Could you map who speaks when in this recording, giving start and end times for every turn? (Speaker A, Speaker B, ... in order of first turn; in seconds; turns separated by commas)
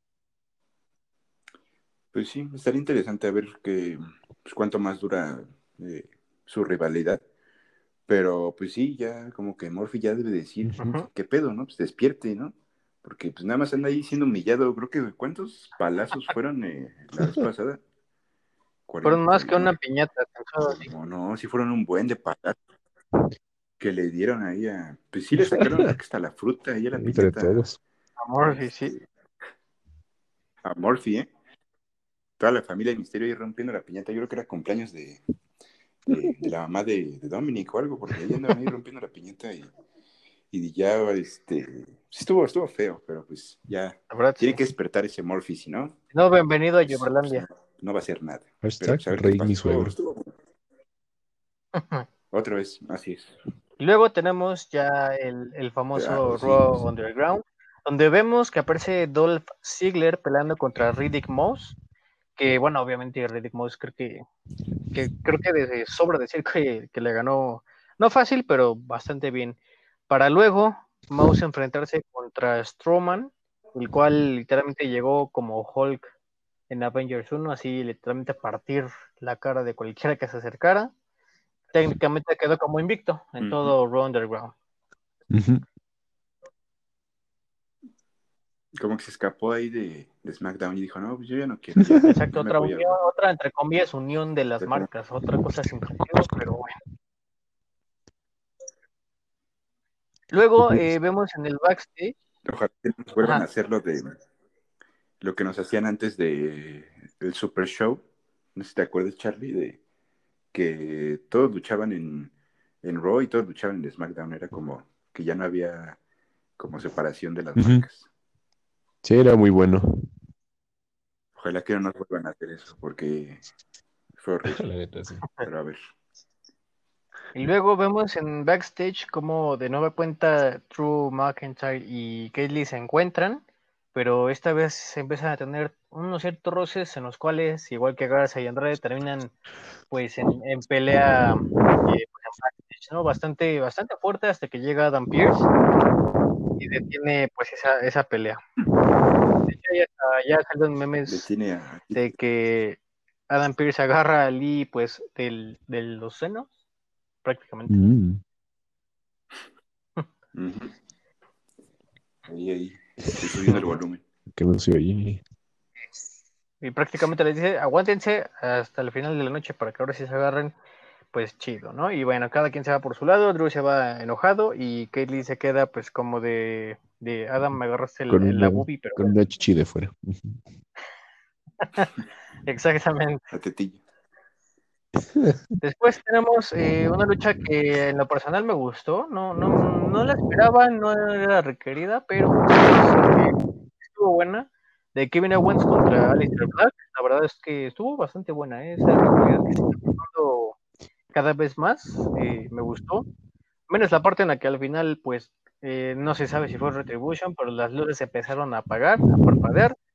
Speaker A: 2.1-7.2, Speaker A: 8.1-17.8, Speaker B: 10.6-11.0, Speaker C: 10.8-11.1, Speaker A: 18.9-19.7, Speaker C: 19.0-20.9, Speaker A: 20.7-22.6, Speaker A: 23.8-27.6, Speaker B: 25.4-25.9, Speaker B: 26.9-27.8, Speaker C: 28.2-28.9, Speaker A: 28.4-28.9, Speaker A: 30.6-31.3, Speaker A: 32.4-35.2, Speaker A: 36.0-39.7, Speaker A: 40.5-46.0, Speaker C: 44.1-44.6, Speaker C: 46.1-47.4, Speaker A: 46.8-50.3, Speaker B: 48.6-49.9, Speaker C: 51.7-52.1, Speaker A: 52.3-53.3, Speaker C: 53.8-61.8, Speaker A: 55.9-56.8, Speaker C: 62.4-64.2, Speaker C: 64.9-69.6, Speaker C: 70.1-76.1, Speaker C: 76.7-80.9, Speaker C: 81.7-84.5, Speaker A: 83.4-83.7, Speaker B: 85.3-85.6, Speaker A: 88.8-92.9, Speaker B: 91.8-92.1, Speaker C: 92.1-96.8, Speaker A: 94.6-94.9, Speaker C: 100.3-102.1, Speaker B: 100.6-100.9, Speaker A: 102.4-104.1, Speaker A: 105.2-108.0, Speaker A: 108.5-109.8, Speaker A: 110.5-116.0, Speaker A: 116.6-118.1, Speaker B: 117.6-117.8, Speaker B: 119.0-119.9, Speaker A: 121.3-123.4, Speaker A: 124.2-124.6, Speaker B: 124.5-125.3, Speaker A: 125.4-125.8, Speaker C: 127.3-133.4, Speaker C: 133.9-139.3, Speaker C: 139.9-145.4, Speaker C: 146.6-148.4, Speaker C: 149.5-151.3, Speaker A: 151.1-152.2, Speaker C: 151.9-156.5, Speaker C: 157.2-157.8, Speaker B: 157.7-158.2, Speaker A: 160.3-160.7, Speaker A: 162.2-164.0, Speaker B: 163.0-163.6, Speaker B: 164.3-165.2, Speaker C: 166.6-170.5, Speaker C: 171.1-179.2, Speaker B: 178.1-180.4, Speaker C: 181.6-181.9, Speaker C: 182.4-183.2, Speaker A: 183.3-183.8, Speaker B: 185.1-185.4, Speaker C: 185.6-200.6, Speaker C: 201.1-203.0, Speaker C: 203.7-209.8